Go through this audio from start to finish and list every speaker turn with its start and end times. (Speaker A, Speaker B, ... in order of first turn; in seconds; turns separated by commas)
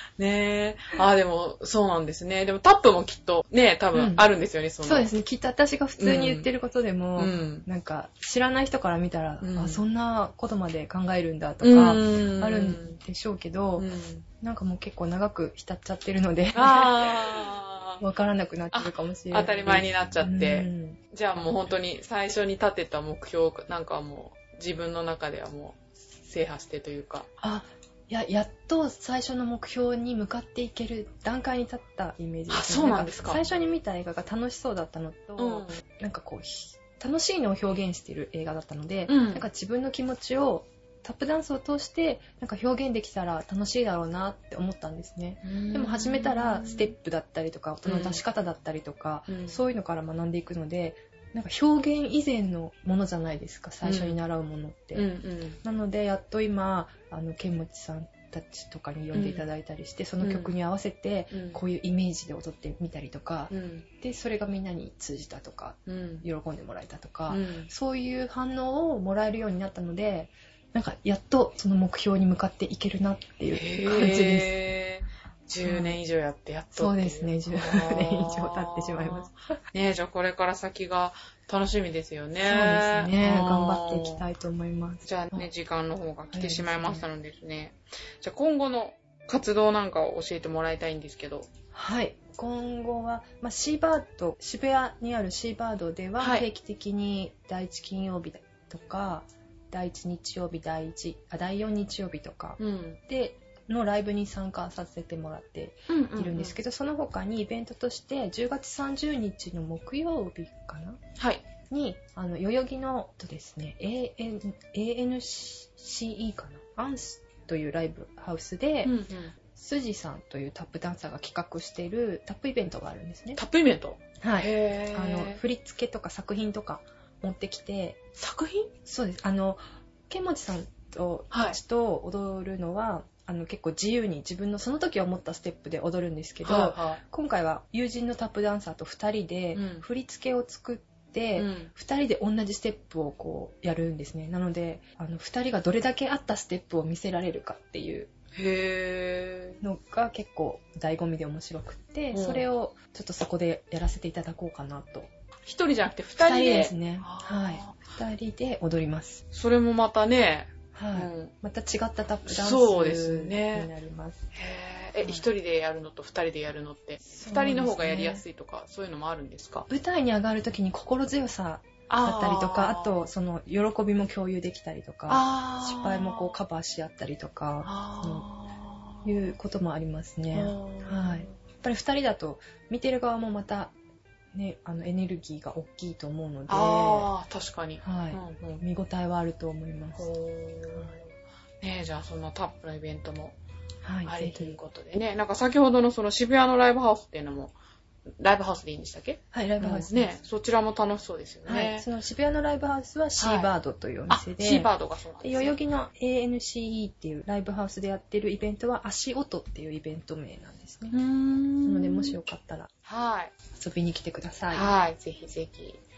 Speaker A: 0.2-5.1, Speaker B: 3.9-4.2, Speaker B: 4.8-13.9, Speaker A: 6.0-6.5, Speaker A: 7.2-7.7, Speaker A: 9.4-9.8, Speaker A: 11.6-13.0, Speaker A: 13.8-14.3, Speaker B: 14.4-17.5, Speaker A: 16.5-18.0, Speaker B: 18.0-21.0, Speaker A: 18.7-27.3, Speaker B: 27.4-55.1, Speaker A: 32.5-33.4, Speaker A: 35.4-35.8, Speaker A: 39.1-39.5, Speaker A: 45.4-46.9, Speaker A: 47.9-48.2, Speaker A: 49.3-49.6, Speaker A: 53.8-54.2, Speaker A: 55.0-55.6, Speaker B: 55.6-74.5, Speaker A: 59.1-59.5, Speaker A: 60.2-60.5, Speaker A: 61.3-61.6, Speaker A: 63.5-63.9, Speaker A: 65.9-66.2, Speaker A: 67.3-67.7, Speaker A: 73.5-84.2, Speaker B: 75.6-76.0, Speaker B: 76.7-79.5, Speaker B: 82.4-85.5, Speaker A: 85.0-91.5, Speaker B: 86.3-87.1, Speaker B: 91.7-111.0, Speaker A: 96.2-96.5, Speaker A: 102.6-103.0, Speaker A: 105.9-106.6, Speaker A: 111.2-111.4, Speaker B: 111.7-123.4, Speaker A: 118.8-119.3, Speaker A: 123.4-125.4, Speaker B: 124.2-128.0, Speaker A: 128.2-128.7, Speaker B: 128.8-148.1, Speaker A: 131.3-131.6, Speaker A: 136.4-137.0, Speaker A: 139.5-139.8, Speaker A: 141.4-141.7, Speaker A: 148.3-149.6, Speaker B: 149.6-155.1, Speaker A: 152.1-152.5, Speaker A: 155.5-157.8, Speaker B: 156.2-159.2, Speaker A: 159.3-161.3, Speaker B: 160.8-164.2, Speaker A: 162.3-163.7, Speaker A: 164.3-169.7, Speaker B: 165.0-165.3, Speaker B: 167.1-168.2, Speaker B: 169.7-178.2, Speaker A: 171.9-173.0, Speaker A: 175.1-176.4, Speaker A: 177.6-179.1, Speaker B: 179.0-183.7, Speaker A: 180.3-181.4, Speaker B: 184.3-187.1, Speaker A: 186.5-188.4, Speaker B: 187.8-190.1, Speaker A: 190.0-191.1, Speaker A: 191.6-193.3, Speaker B: 193.8-194.6, Speaker A: 194.1-197.5, Speaker A: 198.2-201.8, Speaker B: 199.3-200.2, Speaker B: 201.5-204.7, Speaker A: 203.2-203.5, Speaker A: 204.1-205.6, Speaker B: 205.2-211.0, Speaker A: 210.9-212.2, Speaker B: 211.7-212.7, Speaker A: 212.8-213.3, Speaker B: 213.5-214.7, Speaker A: 214.5-215.8